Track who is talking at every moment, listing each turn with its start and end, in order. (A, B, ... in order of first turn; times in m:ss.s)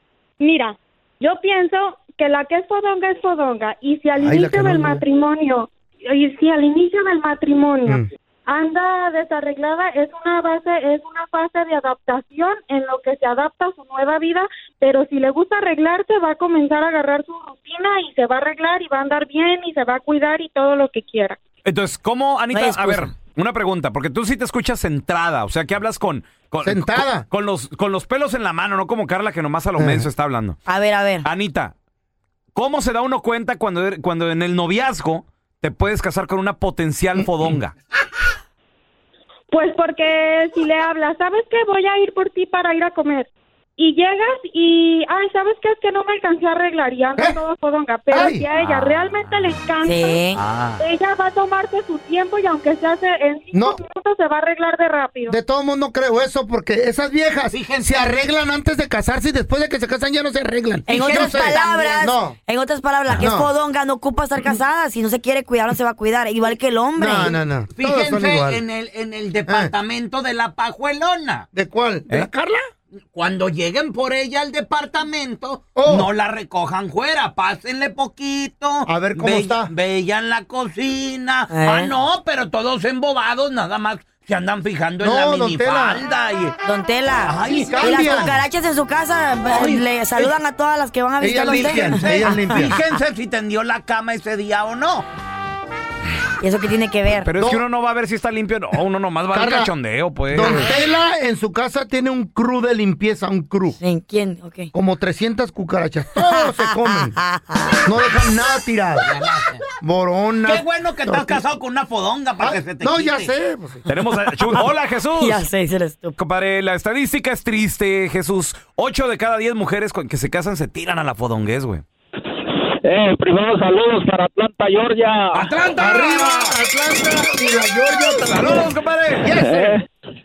0:00.4-0:21.4 A
0:04.2-0:05.0 B
0:21.6-0:30.6 C
0:22.5-0:23.1 D
0:26.6-0:27.2 B
0:29.8-0:30.1 B
0:30.7-0:31.2 D
0:31.2-0:31.7 C
0:32.5-0:37.7 C
0:39.5-0:50.2 A
0:48.1-0:48.4 B
0:49.8-0:50.4 D
0:50.4-0:50.8 E
0:50.8-0:55.4 A
0:53.5-0:53.8 B
0:55.3-1:02.4 B
0:57.5-0:58.1 E
1:00.9-1:02.0 E
1:00.9-1:07.4 D
1:03.2-1:03.5 B
1:07.0-1:08.6 B
1:07.8-1:11.5 E
1:09.5-1:09.7 B
1:11.5-1:12.6 B
1:13.1-1:26.6 E
1:15.7-1:16.1 B
1:18.8-1:19.7 B
1:21.5-1:21.9 D
1:25.0-1:26.0 B
1:26.6-1:32.8 D
1:27.2-1:28.3 E
1:27.4-1:28.4 B
1:29.5-1:29.8 E
1:31.2-1:32.7 B
1:31.4-1:35.0 E
1:36.4-1:37.3 D
1:37.2-1:40.7 C
1:37.4-1:37.6 B
1:39.3-1:39.7 B
1:40.3-1:43.8 B
1:40.4-1:40.7 D
1:43.8-1:44.7 D
1:44.7-1:47.2 B
1:47.2-1:47.8 D
1:47.8-1:49.1 B
1:49.1-1:49.6 E
1:49.8-1:51.4 B
1:50.4-1:53.3 E
1:52.4-1:53.9 B
1:53.9-1:55.4 C
1:55.2-1:56.2 D
1:56.2-2:01.8 C
2:02.3-2:05.5 F
2:05.5-2:06.4 E
2:05.8-2:09.8 B
2:08.1-2:09.4 C
2:09.3-2:09.9 F